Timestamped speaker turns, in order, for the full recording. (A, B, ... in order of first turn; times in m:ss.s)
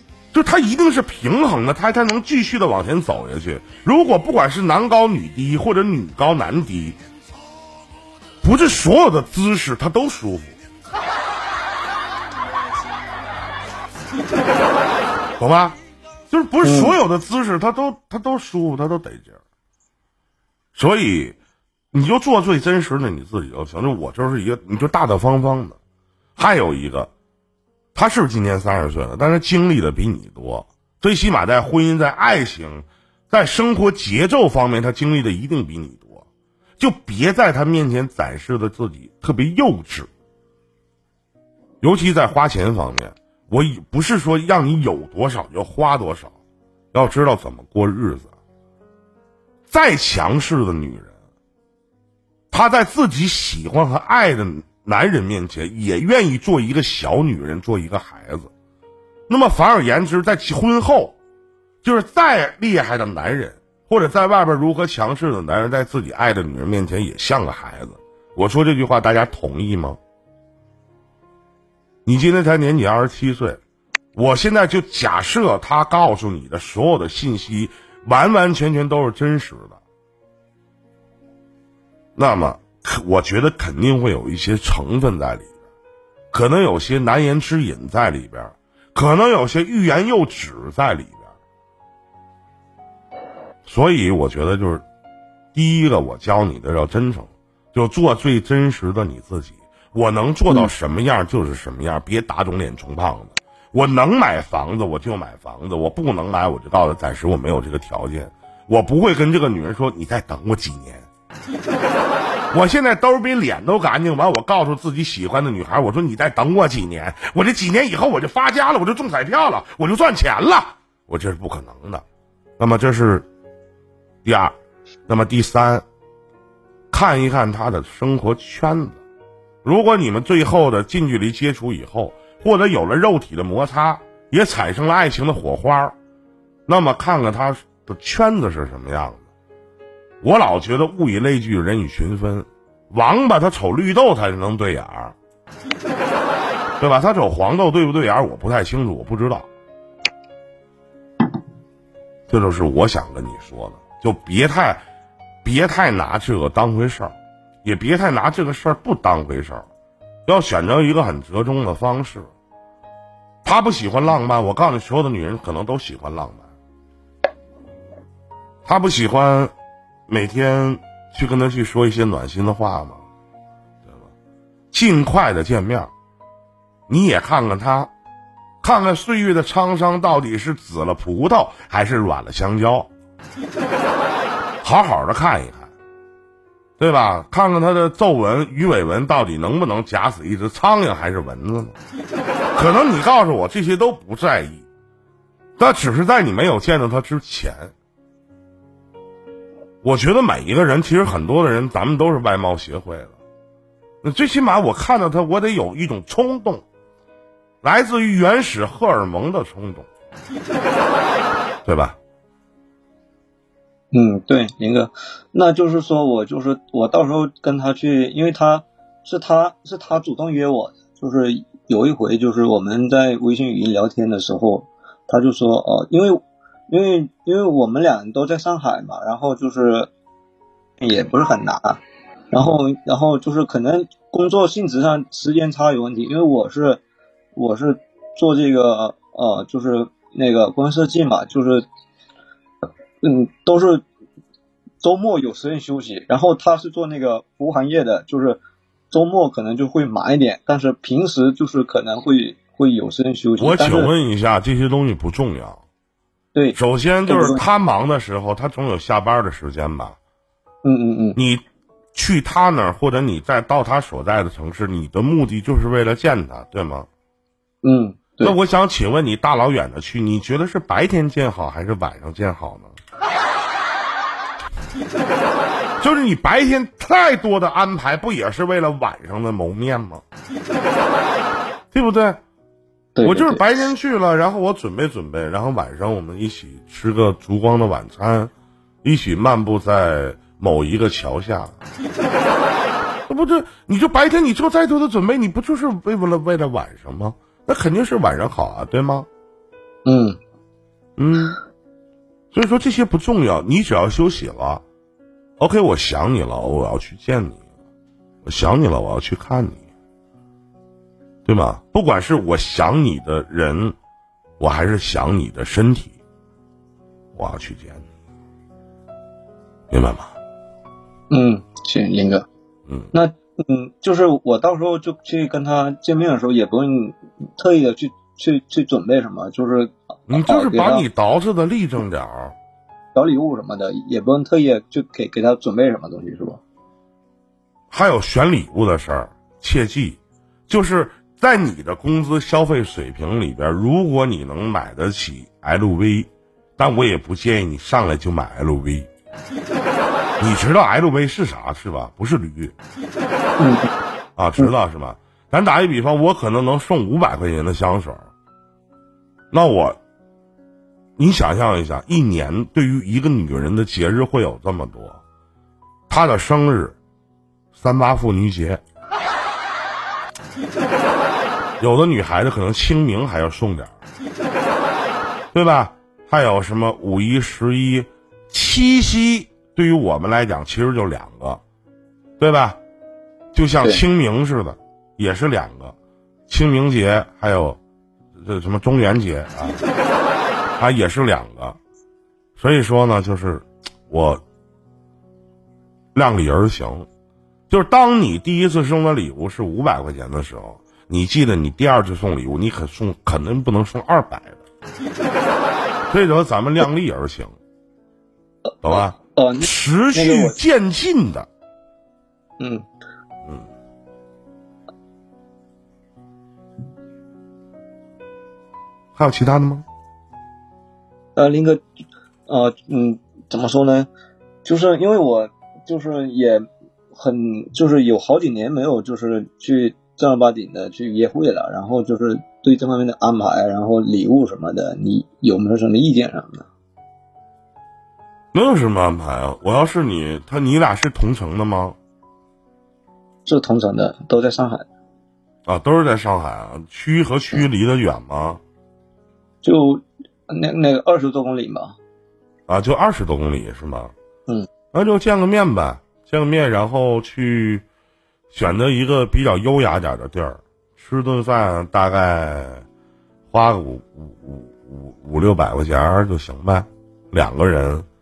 0:00.3-0:07.0 A
0:08.4-0:10.6 A
0:15.4-0:15.8 A
0:16.3-0:19.4 A
0:16.6-0:17.0 B
0:20.7-0:21.4 A
0:21.9-0:25.8 A
0:26.4-0:27.1 A
0:27.9-0:36.2 A
0:36.8-0:40.1 A
0:41.8-0:46.3 A
0:46.9-0:48.3 A
0:49.7-0:51.1 A
0:52.5-0:58.5 A
0:59.3-1:01.2 A
1:01.8-1:10.0 A
1:12.0-1:13.6 A
1:14.1-1:19.8 A
1:22.2-1:25.5 A
1:26.3-1:31.3 A
1:33.6-1:34.8 A
1:35.5-1:51.1 A
1:52.5-2:02.0 A
2:02.6-2:03.3 A
2:04.2-2:04.5 A
2:05.1-2:05.8 A
2:06.9-2:09.0 A
2:09.6-2:15.9 A
2:16.7-2:19.2 A
2:20.2-2:25.1 A
2:26.8-2:29.5 A
2:32.3-2:34.8 A
2:35.4-2:39.6 A
2:40.2-2:42.3 A
2:43.4-2:46.5 A
2:48.6-2:49.5 A
2:50.1-2:53.0 A
2:53.8-2:54.1 A
2:54.7-2:55.9 A
2:56.9-2:57.9 A
2:58.6-3:02.9 A
3:04.6-3:05.7 A
3:06.8-3:11.8 A
3:12.5-3:14.6 A
3:15.6-3:17.7 A
3:19.8-3:23.2 A
3:24.0-3:26.6 A
3:27.6-3:29.9 A
3:31.6-3:32.0 A
3:33.9-3:49.9 B
3:50.8-3:51.8 B
3:52.3-3:56.8 B
3:57.4-4:01.6 B
4:03.0-4:03.8 B
4:04.8-4:08.4 B
4:08.9-4:13.9 B
4:13.4-4:15.6 A
4:16.3-4:17.4 B
4:16.6-4:20.0 A
4:20.6-4:21.2 B
4:21.2-4:26.9 A
4:27.6-4:28.4 B
4:28.2-4:32.8 A
4:35.8-4:40.0 A
4:41.7-4:42.2 A
4:43.0-4:43.4 B
4:43.0-4:48.3 A
4:48.8-4:51.6 A
4:53.1-4:59.1 A
4:59.8-5:00.2 B
5:01.0-5:01.4 A
5:02.3-5:04.6 A
5:05.4-5:07.4 A
5:08.2-5:09.6 A
5:11.2-5:13.8 A
5:14.4-5:15.9 A
5:17.1-5:17.8 A
5:19.7-5:20.1 A
5:21.1-5:22.3 B
5:22.9-5:30.8 B
5:30.1-5:32.3 A
5:32.9-5:36.4 B
5:37.7-5:48.9 A
5:50.2-5:52.5 A
5:53.4-5:53.7 B
5:54.2-5:58.1 A
5:59.3-5:59.8 A
6:01.0-6:05.0 A
6:05.9-6:06.8 A
6:07.5-6:08.6 A
6:11.6-6:13.7 A
6:15.3-6:21.4 A
6:22.2-6:22.6 A
6:23.3-6:25.7 A
6:26.3-6:27.6 A
6:28.2-6:29.6 A
6:30.6-6:31.6 A
6:32.4-6:34.2 A
6:35.9-6:36.9 A
6:37.5-6:44.4 A
6:45.9-6:47.4 A
6:48.5-6:50.4 B
6:48.6-6:51.3 A
6:52.4-6:52.6 B
6:59.0-6:59.6 A
7:01.2-7:01.6 B
7:02.3-7:03.9 B
7:04.4-7:16.5 B
7:18.3-7:21.8 A
7:23.2-7:24.7 B
7:25.4-7:28.4 A
7:29.4-7:31.8 B
7:32.5-7:33.9 A
7:34.7-7:37.6 A
7:38.3-7:42.6 A
7:43.3-7:47.8 A